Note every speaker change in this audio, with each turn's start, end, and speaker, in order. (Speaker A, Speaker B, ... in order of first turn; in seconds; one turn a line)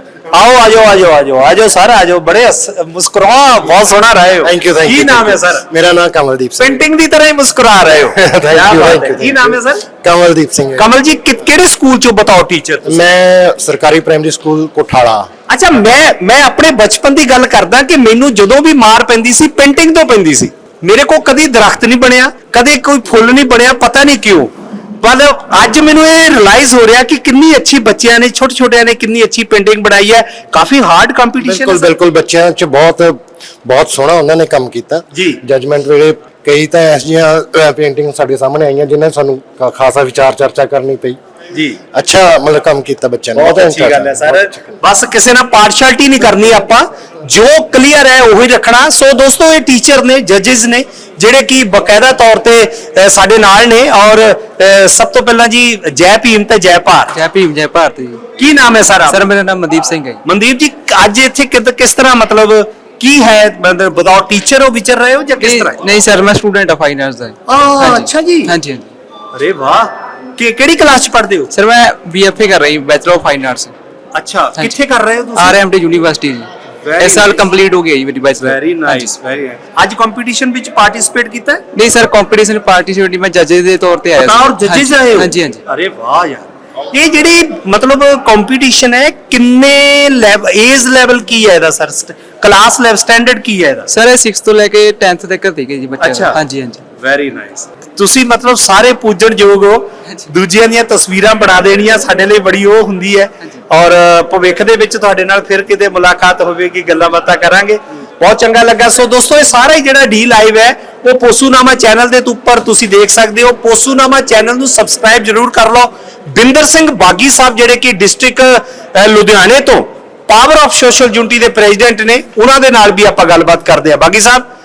Speaker A: 0.3-5.7
Speaker B: 4.4-6.8
Speaker A: 6.6-9.8
Speaker B: 8.1-10.9
Speaker A: 10.8-13.0
Speaker B: 12.8-15.3
Speaker A: 15.5-31.9
Speaker B: 31.4-41.2
Speaker A: 35.1-35.4
Speaker A: 41.5-41.8
Speaker B: 41.9-44.8
Speaker A: 43.3-57.1
Speaker C: 57.1-58.2
Speaker A: 58.4-59.2
Speaker C: 59.0-60.2
Speaker A: 60.2-65.8
Speaker C: 65.4-68.9
Speaker A: 67.5-68.5
Speaker A: 69.3-71.5
Speaker C: 71.5-73.7
Speaker A: 74.1-75.6
Speaker C: 75.3-79.1
Speaker A: 76.8-77.5
Speaker A: 78.4-81.6
Speaker C: 81.7-85.6
Speaker A: 84.1-93.9
Speaker C: 93.9-96.8
Speaker A: 96.0-96.4
Speaker A: 96.9-124.5